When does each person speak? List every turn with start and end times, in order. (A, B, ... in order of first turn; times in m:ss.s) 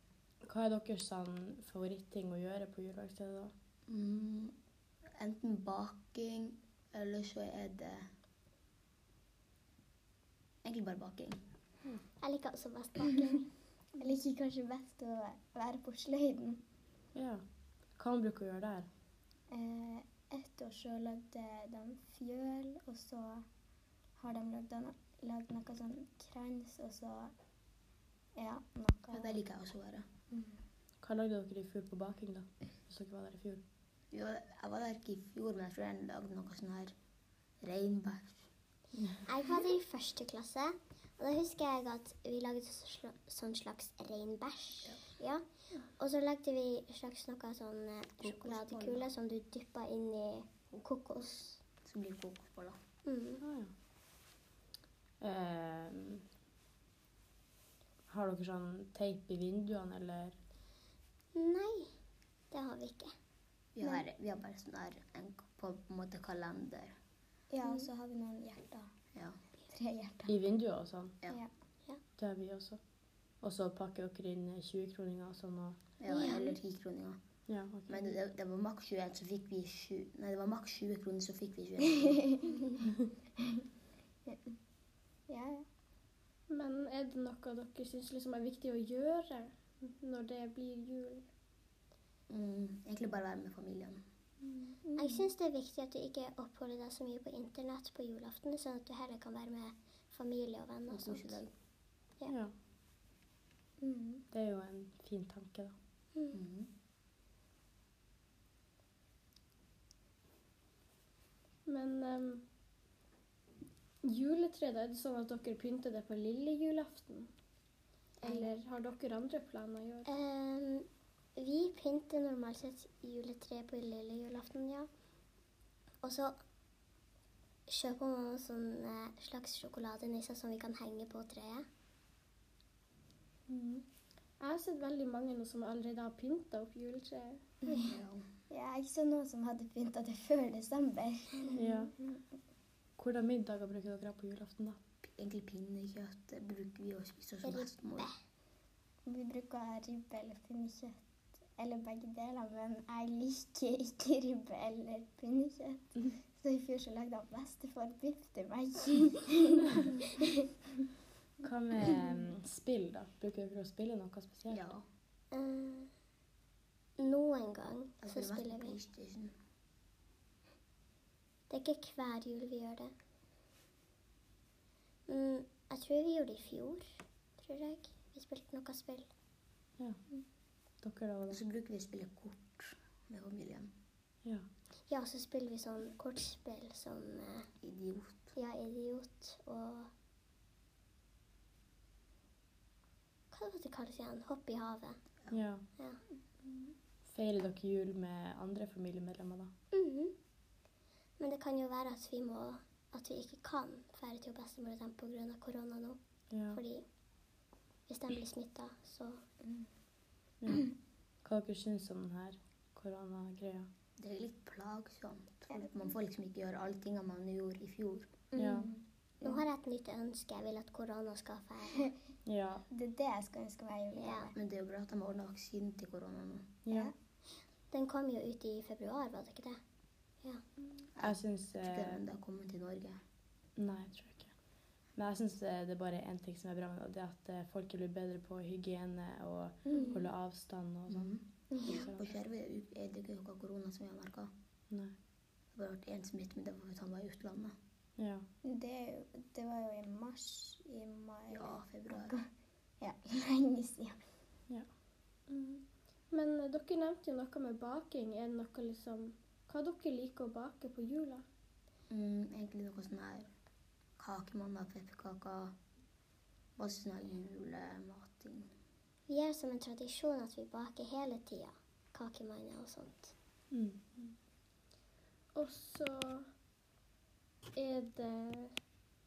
0:00.4-0:03.5 A
0:03.9-0:04.5 B
0:05.2-0:08.1 B
0:10.6-0:11.4 B
0:12.2-0:13.5 C
0:14.0-0:16.6 D
0:17.2-0:17.4 A
0:18.0-0:18.9 A
0:19.5-0:23.4 D
0:24.2-0:27.3 D
0:28.4-0:29.4 D
0:29.1-0:30.1 B
0:31.0-0:33.6 A
0:34.1-0:36.9 B
0:37.6-0:38.4 B
0:39.3-0:45.4 C
0:46.0-0:51.6 C
0:48.3-0:48.8 D
0:51.8-0:52.8 B
0:53.0-0:53.4 C
0:53.4-0:53.7 A
0:55.2-0:56.2 A
0:58.1-1:00.4 A
1:01.4-1:01.9 C
1:02.5-1:03.1 C
1:03.8-1:07.0 B
1:07.5-1:08.9 D
1:09.7-1:10.3 D
1:10.3-1:11.2 A
1:12.2-1:12.8 A
1:13.4-1:15.8 A
1:16.0-1:17.2 B
1:16.1-1:16.6 C
1:17.5-1:18.2 A
1:17.9-1:22.4 B
1:24.3-1:24.6 D
1:25.3-1:25.7 D
1:26.5-1:31.3 E
1:32.3-1:34.0 B
1:34.8-1:35.3 D
1:35.0-1:41.5 C
1:40.9-1:41.5 B
1:42.3-1:42.5 A
1:43.8-1:44.2 D
1:44.3-1:45.7 A
1:46.3-1:46.7 B
1:51.7-1:52.4 E
1:54.0-1:57.3 E
1:58.2-2:00.1 E
1:58.2-1:58.5 C
2:00.1-2:04.9 C
2:06.0-2:06.3 C
2:07.7-2:11.7 C
2:13.5-2:13.8 E
2:14.4-2:17.9 E
2:17.8-2:18.2 B
2:18.5-2:21.8 D
2:21.6-2:21.9 A
2:23.0-2:24.8 A
2:25.0-2:28.1 B
2:27.4-2:28.2 C
2:29.1-2:40.2 D
2:41.4-2:44.7 A
2:44.5-2:44.8 B
2:45.3-2:45.9 C
2:47.0-2:48.8 C
2:48.0-2:49.3 B
2:51.5-2:52.9 C
2:55.1-2:56.9 C
2:57.4-2:59.1 C
3:00.8-3:01.4 A
3:01.3-3:03.7 B
3:04.9-3:07.5 C
3:07.6-3:08.3 B
3:08.4-3:09.9 C
3:13.3-3:15.0 C
3:15.3-3:15.6 A
3:17.1-3:19.5 A
3:19.7-3:20.1 C
3:21.2-3:26.0 C
3:26.3-3:26.6 A
3:26.5-3:26.8 C
3:27.9-3:29.2 C
3:30.4-3:30.7 A
3:31.2-3:33.7 A
3:34.0-3:38.1 B
3:38.3-3:39.4 D
3:38.4-3:38.7 A
3:39.2-3:41.9 C
3:42.3-3:42.6 A
3:42.7-3:44.4 D
3:44.0-3:44.3 C
3:44.4-3:46.5 B
3:46.7-3:46.9 A
3:47.7-3:49.6 C
3:51.0-3:53.0 B
3:51.0-3:52.0 A
3:53.6-3:54.3 A
3:55.0-4:01.1 A
3:59.7-3:59.9 D
4:00.9-4:04.3 B
4:01.5-4:01.8 D
4:01.6-4:02.0 A
4:05.6-4:07.6 B
4:08.0-4:08.3 A
4:08.4-4:12.3 D
4:11.3-4:12.2 B
4:12.8-4:14.0 D
4:15.3-4:21.2 E
4:21.9-4:23.3 B
4:24.0-4:25.5 B
4:26.6-4:28.5 B
4:29.1-4:33.1 C
4:33.5-4:33.8 A
4:35.4-4:36.3 E
4:37.6-4:38.5 E